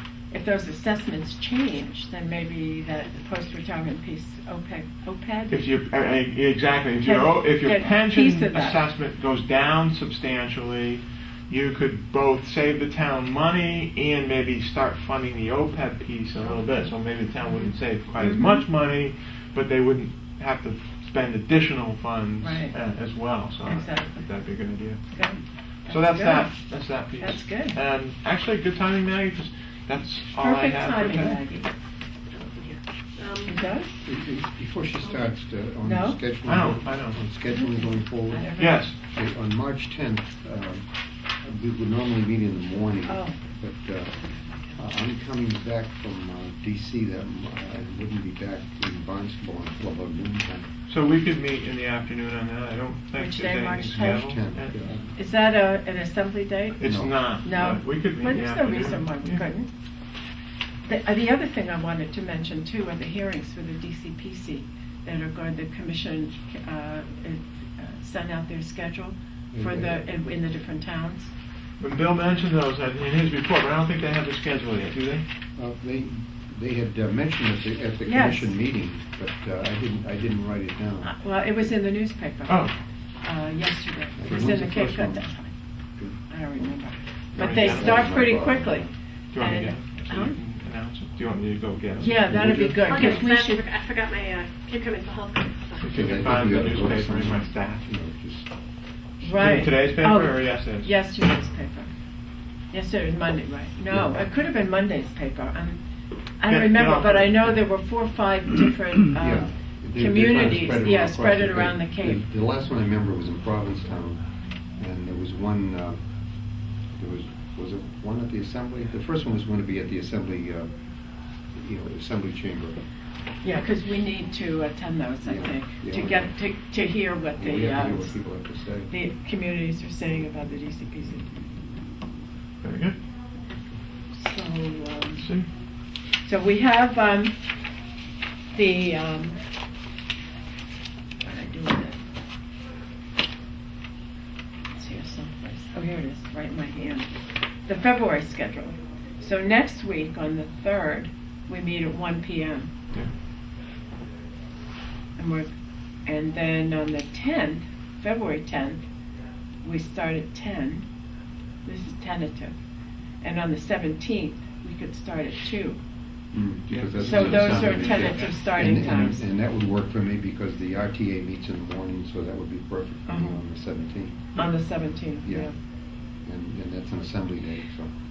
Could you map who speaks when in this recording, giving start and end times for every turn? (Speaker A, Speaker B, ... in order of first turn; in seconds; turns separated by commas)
Speaker A: 0.3-5.6, Speaker B: 5.5-25.0, Speaker A: 7.0-8.8, Speaker A: 17.5-18.6, Speaker A: 22.4-22.7, Speaker A: 23.6-24.2, Speaker A: 25.1-26.5, Speaker B: 25.9-31.4, Speaker A: 27.2-27.8, Speaker A: 30.4-31.7, Speaker C: 32.3-33.6, Speaker A: 33.5-33.9, Speaker D: 34.0-40.9, Speaker A: 35.8-36.2, Speaker B: 36.4-37.2, Speaker A: 37.5-38.9, Speaker B: 38.6-38.9, Speaker D: 41.4-44.2, Speaker A: 43.0-43.4, Speaker D: 44.8-50.7, Speaker B: 50.9-54.9, Speaker A: 53.2-54.3, Speaker D: 54.2-55.1, Speaker A: 55.2-56.8, Speaker B: 56.8-59.4, Speaker D: 56.8-57.1, Speaker A: 57.4-59.7, Speaker A: 60.8-71.3, Speaker D: 69.5-70.0, Speaker B: 71.8-75.2, Speaker D: 75.6-81.1, Speaker A: 78.0-78.5, Speaker A: 81.0-82.7, Speaker B: 82.5-82.7, Speaker A: 83.2-85.5, Speaker D: 84.2-85.2, Speaker A: 86.3-90.4, Speaker B: 87.4-88.1, Speaker D: 87.4-88.9, Speaker B: 89.3-92.2, Speaker A: 92.0-93.6, Speaker D: 92.2-93.2, Speaker C: 92.8-96.0, Speaker B: 95.8-97.9, Speaker D: 95.9-98.5, Speaker A: 99.2-101.9, Speaker B: 99.2-100.9, Speaker A: 102.7-105.8, Speaker D: 103.9-104.1, Speaker A: 106.4-112.2, Speaker B: 106.5-107.5, Speaker D: 109.2-114.2, Speaker D: 114.8-116.0, Speaker D: 117.0-120.7, Speaker D: 121.5-122.8, Speaker A: 123.4-128.2, Speaker D: 125.2-126.3, Speaker D: 127.4-128.9, Speaker A: 128.9-131.3, Speaker B: 132.6-132.9, Speaker A: 134.1-135.2, Speaker B: 135.2-135.5, Speaker A: 136.2-137.3, Speaker A: 138.5-139.3, Speaker A: 141.2-142.0, Speaker A: 144.7-147.1, Speaker A: 147.7-152.7, Speaker A: 155.2-155.5, Speaker A: 156.1-158.8, Speaker A: 159.6-160.8, Speaker A: 161.6-162.6, Speaker A: 163.2-165.8, Speaker D: 166.3-174.4, Speaker B: 166.7-168.6, Speaker A: 167.0-169.2, Speaker A: 173.1-173.4, Speaker A: 174.3-175.5, Speaker D: 175.2-175.5, Speaker D: 176.2-177.9